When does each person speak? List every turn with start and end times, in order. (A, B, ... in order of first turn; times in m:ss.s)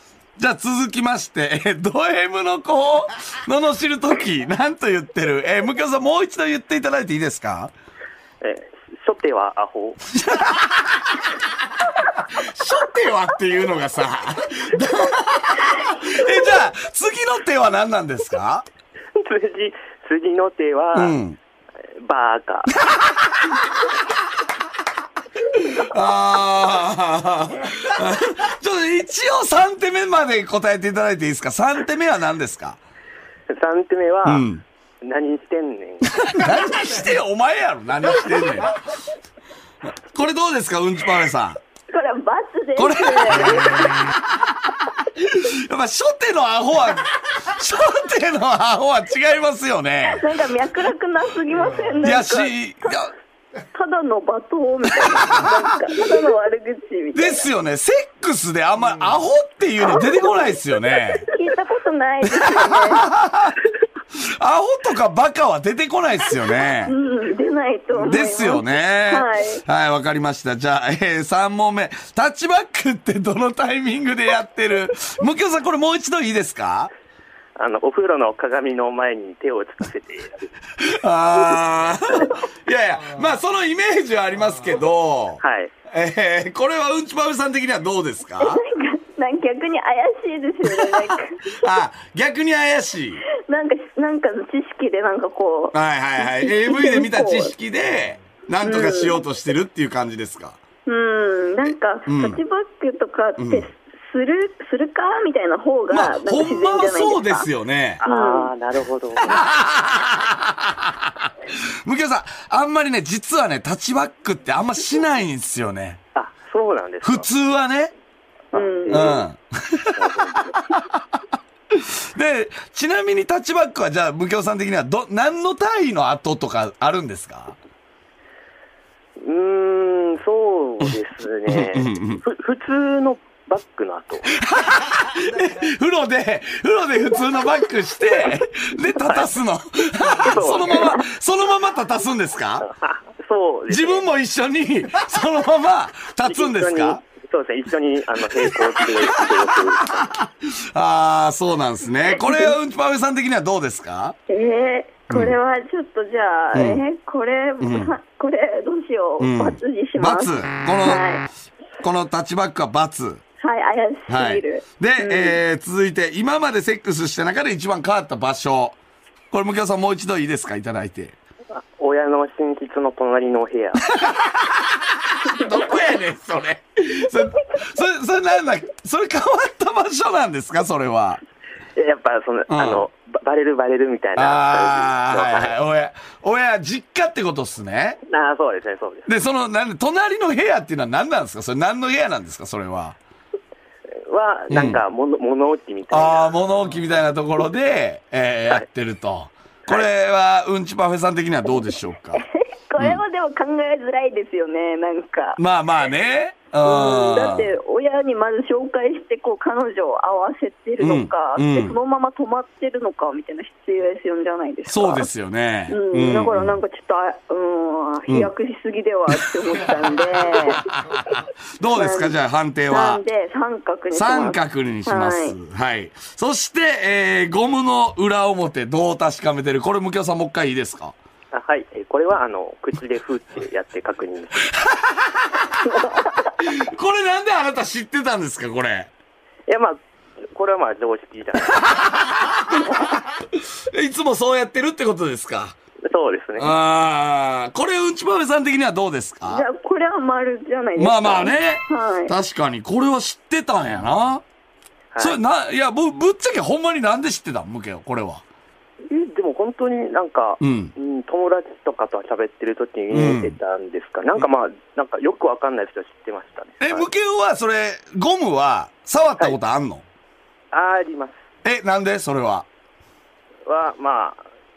0:00.4-0:07.7 A
0:08.4-0:10.0 B
0:10.1-0:11.2 A
0:12.3-0:18.6 A
0:19.2-0:21.2 B
0:20.9-0:21.4 A
0:22.0-0:22.7 B
0:22.8-0:23.3 A
0:25.5-0:32.8 A
0:33.5-0:34.4 B
0:34.2-0:34.6 A
0:35.0-0:36.5 B
0:36.3-0:38.7 A
0:40.1-0:41.6 A
0:41.9-0:44.0 C
0:42.8-0:43.9 A
0:45.2-0:50.2 A
0:50.0-0:52.5 C
0:52.0-0:53.1 A
0:53.7-0:57.5 C
0:55.3-0:55.6 A
0:57.1-1:01.2 A
0:59.8-1:03.1 C
1:02.3-1:03.6 A
1:04.2-1:07.0 A
1:06.8-1:09.6 C
1:08.0-1:16.9 A
1:17.6-1:20.5 B
1:20.8-1:28.6 A
1:25.4-1:25.7 B
1:28.4-1:31.7 C
1:31.6-1:33.2 A
1:33.4-1:37.5 C
1:35.7-1:40.6 A
1:38.6-1:39.2 C
1:40.8-1:47.5 C
1:42.1-1:42.4 A
1:43.4-1:43.7 A
1:45.9-1:48.0 A
1:48.0-1:49.5 B
1:48.0-1:48.5 C
1:49.2-1:56.0 A
1:56.1-1:57.3 B
1:57.0-1:57.9 A
1:58.5-1:59.2 C
1:58.5-1:59.2 B
1:58.9-2:00.0 A
1:59.9-2:00.7 B
2:01.7-2:07.6 A
2:09.2-2:14.4 B
2:11.5-2:12.2 A
2:14.4-2:22.7 A
2:19.0-2:19.3 B
2:20.2-2:21.0 B
2:22.8-2:24.1 B
2:23.7-2:27.0 A
2:26.2-2:30.1 B
2:28.4-2:29.2 A
2:30.0-2:34.2 A
2:32.2-2:32.5 C
2:34.3-2:41.3 C
2:35.1-2:35.3 A
2:36.5-2:36.8 A
2:37.6-2:38.0 A
2:39.2-2:41.0 A
2:41.8-2:43.2 A
2:43.4-2:45.4 C
2:44.1-2:48.8 A
2:49.3-2:51.2 A
2:51.6-2:53.9 B
2:54.0-3:01.2 A
3:01.8-3:05.5 B
3:02.5-3:02.8 A
3:04.2-3:08.0 A
3:08.1-3:09.1 B
3:09.0-3:13.0 A
3:14.1-3:16.5 B
3:14.5-3:14.8 A
3:15.9-3:22.2 A
3:22.1-3:25.4 C
3:22.8-3:23.0 A
3:25.4-3:27.5 A
3:26.6-3:35.1 C
3:30.8-3:31.8 A
3:34.6-3:36.6 A
3:35.7-3:40.6 C
3:41.1-3:43.0 A
3:41.7-3:42.1 C
3:42.7-3:45.4 C
3:43.9-3:51.0 A
3:51.3-3:54.4 B
3:54.9-3:55.2 A
3:56.4-3:58.9 A
3:59.5-3:59.8 B
4:00.3-4:01.7 B
4:01.5-4:05.6 A
4:05.9-4:06.5 B
4:06.4-4:09.4 A
4:09.2-4:12.1 C
4:10.8-4:14.2 A
4:14.9-4:15.2 B
4:15.0-4:18.2 A
4:18.9-4:26.9 B
4:20.4-4:20.7 A
4:22.9-4:23.4 A
4:26.6-4:29.8 A
4:30.5-4:31.1 B
4:31.4-4:32.5 A
4:33.4-4:34.2 B